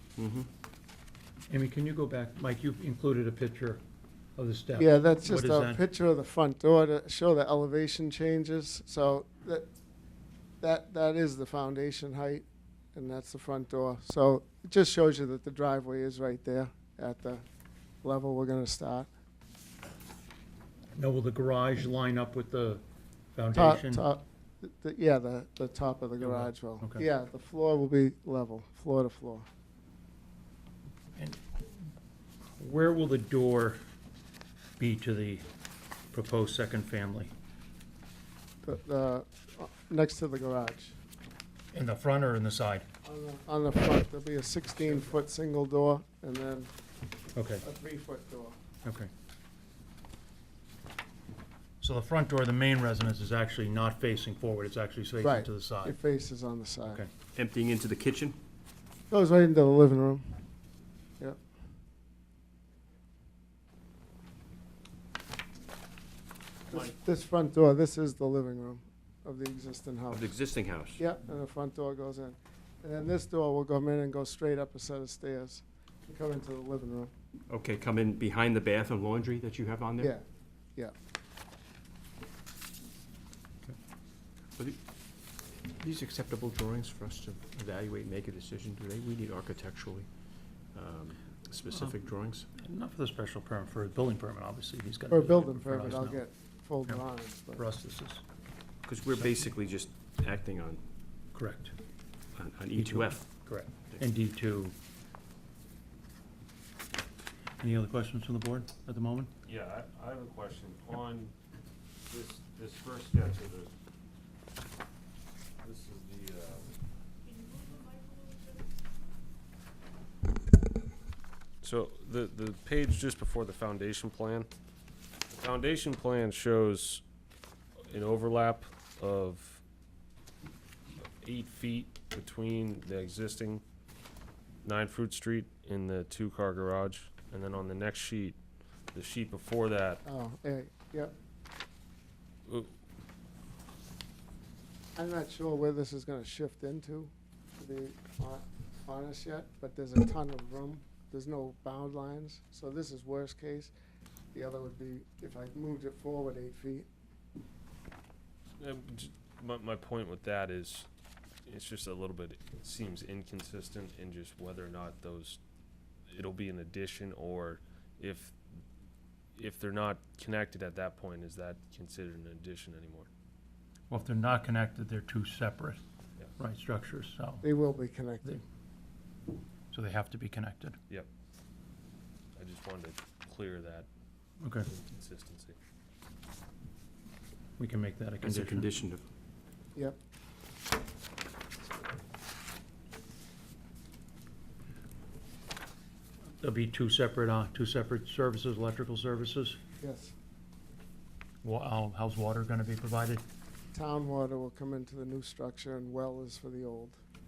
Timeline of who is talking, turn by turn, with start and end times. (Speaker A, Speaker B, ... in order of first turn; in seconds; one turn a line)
Speaker A: 0.2-0.5
Speaker B: 1.5-3.8
Speaker B: 4.3-5.8
Speaker C: 4.8-9.7
Speaker C: 10.6-17.4
Speaker C: 18.0-19.1
Speaker B: 20.9-22.8
Speaker B: 23.3-24.0
Speaker C: 23.5-29.4
Speaker B: 26.2-27.1
Speaker B: 31.1-31.4
Speaker B: 32.6-33.8
Speaker B: 34.8-35.5
Speaker B: 36.1-37.3
Speaker C: 38.6-41.0
Speaker B: 41.7-42.8
Speaker C: 43.0-46.7
Speaker B: 47.3-47.6
Speaker C: 47.6-48.5
Speaker B: 48.8-49.1
Speaker B: 51.8-56.0
Speaker C: 55.2-57.0
Speaker A: 57.3-58.4
Speaker C: 59.1-60.3
Speaker C: 66.7-70.3
Speaker A: 70.1-71.0
Speaker C: 71.0-77.1
Speaker A: 77.5-80.1
Speaker C: 80.0-80.2
Speaker A: 85.8-90.1
Speaker A: 90.7-92.5
Speaker B: 92.6-96.2
Speaker C: 95.1-97.7
Speaker B: 97.6-98.2
Speaker A: 98.8-100.8
Speaker B: 99.1-99.4
Speaker B: 101.3-101.7
Speaker A: 102.3-103.2
Speaker B: 102.8-104.7
Speaker B: 107.6-109.3
Speaker D: 109.4-111.3
Speaker D: 112.1-113.7
Speaker D: 115.6-116.7
Speaker D: 121.6-124.5
Speaker D: 125.3-127.0
Speaker D: 127.9-129.6
Speaker D: 131.2-133.6
Speaker D: 134.6-138.4
Speaker D: 138.9-140.0
Speaker C: 140.0-141.1
Speaker D: 142.5-142.7
Speaker C: 144.9-153.7
Speaker C: 154.3-156.9
Speaker D: 158.6-160.9
Speaker D: 161.4-165.4
Speaker D: 166.1-168.4
Speaker D: 169.3-173.1
Speaker B: 173.9-175.8
Speaker B: 176.4-177.4
Speaker C: 177.4-178.4
Speaker B: 179.7-180.8
Speaker D: 182.3-183.9
Speaker B: 184.4-184.7
Speaker D: 184.6-185.5
Speaker B: 187.6-188.7
Speaker A: 188.2-189.0
Speaker B: 196.4-199.6
Speaker C: 199.8-200.1
Speaker B: 201.4-203.2
Speaker C: 203.7-207.0